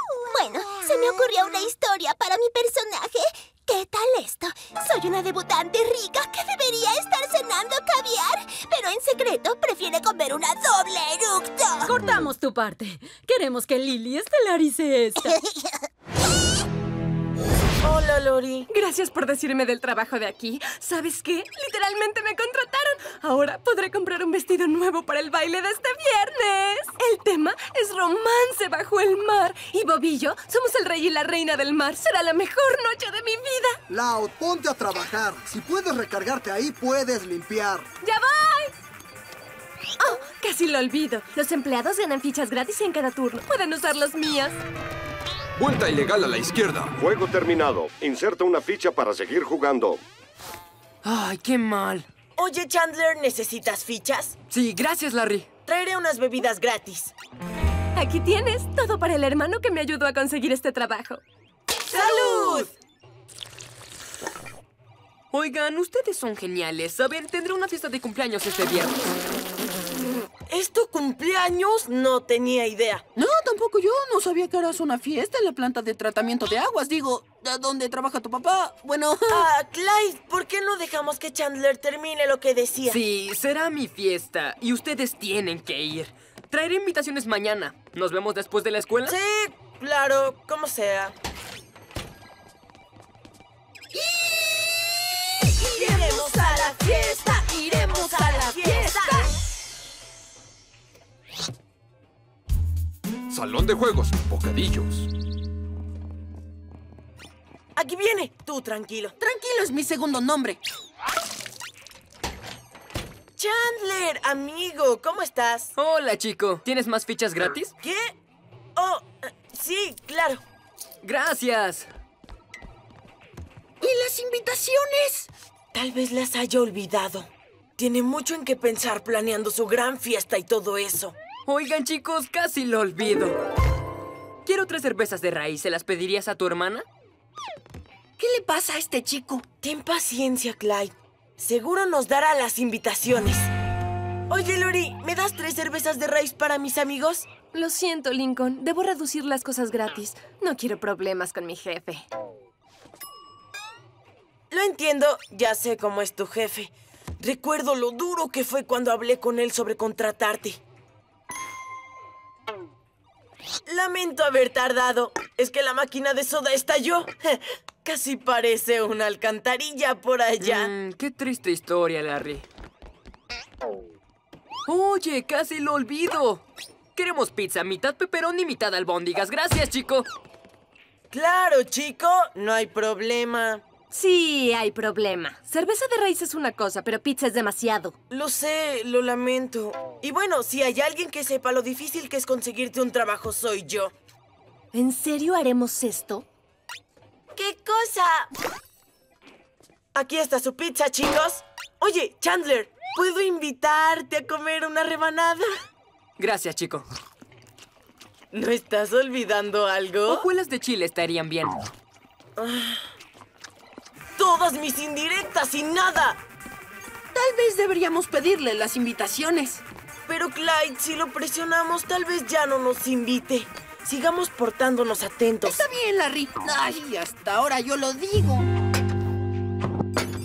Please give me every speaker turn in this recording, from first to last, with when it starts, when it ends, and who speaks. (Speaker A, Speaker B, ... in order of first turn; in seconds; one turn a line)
Speaker A: 0.3-11.9
Speaker B: 11.9-15.3
Speaker C: 17.8-18.7
Speaker D: 18.7-33.8
Speaker E: 33.9-37.9
Speaker D: 38.0-38.7
Speaker D: 40.0-44.6
Speaker F: 45.6-47.0
Speaker G: 47.0-50.0
Speaker H: 51.0-52.1
Speaker C: 52.4-54.4
Speaker H: 54.5-55.5
Speaker C: 55.6-57.1
Speaker D: 58.0-61.2
Speaker C: 61.9-62.7
Speaker D: 62.0-62.5
Speaker H: 65.3-69.2
Speaker C: 70.5-73.0
Speaker I: 74.2-78.3
Speaker I: 78.8-79.1
Speaker C: 79.3-83.0
Speaker H: 82.9-89.2
Speaker C: 89.0-91.1
Speaker C: 95.7-99.3
Speaker A: 95.8-97.4
Speaker A: 98.2-99.2
Speaker F: 103.3-105.1
Speaker C: 107.8-109.1
Speaker I: 109.7-110.2
Speaker C: 113.4-115.7
Speaker H: 115.8-117.7
Speaker C: 117.8-118.2
Speaker C: 118.8-120.4
Speaker H: 121.0-121.9
Speaker I: 123.8-124.2
Speaker C: 125.7-131.2
Speaker H: 131.5-133.4
Speaker H: 134.5-136.9
Speaker I: 138.2-139.1
Speaker C: 139.6-143.5
Speaker C: 144.3-147.3
Speaker D: 147.5-152.1
Speaker C: 154.5-160.6
Speaker C: 163.7-170.7
Speaker H: 170.4-172.5
Speaker H: 174.7-176.4
Speaker H: 177.0-180.1
Speaker C: 181.1-183.6
Speaker D: 183.9-187.9
Speaker C: 188.1-193.9
Speaker I: 194.8-196.2
Speaker C: 197.3-198.3
Speaker C: 199.9-205.5
Speaker H: 206.2-206.9
Speaker C: 208.3-210.2
Speaker H: 210.1-211.7
Speaker C: 212.4-212.8
Speaker C: 214.2-216.2
Speaker I: 217.2-219.2
Speaker C: 220.1-225.6
Speaker I: 225.5-228.4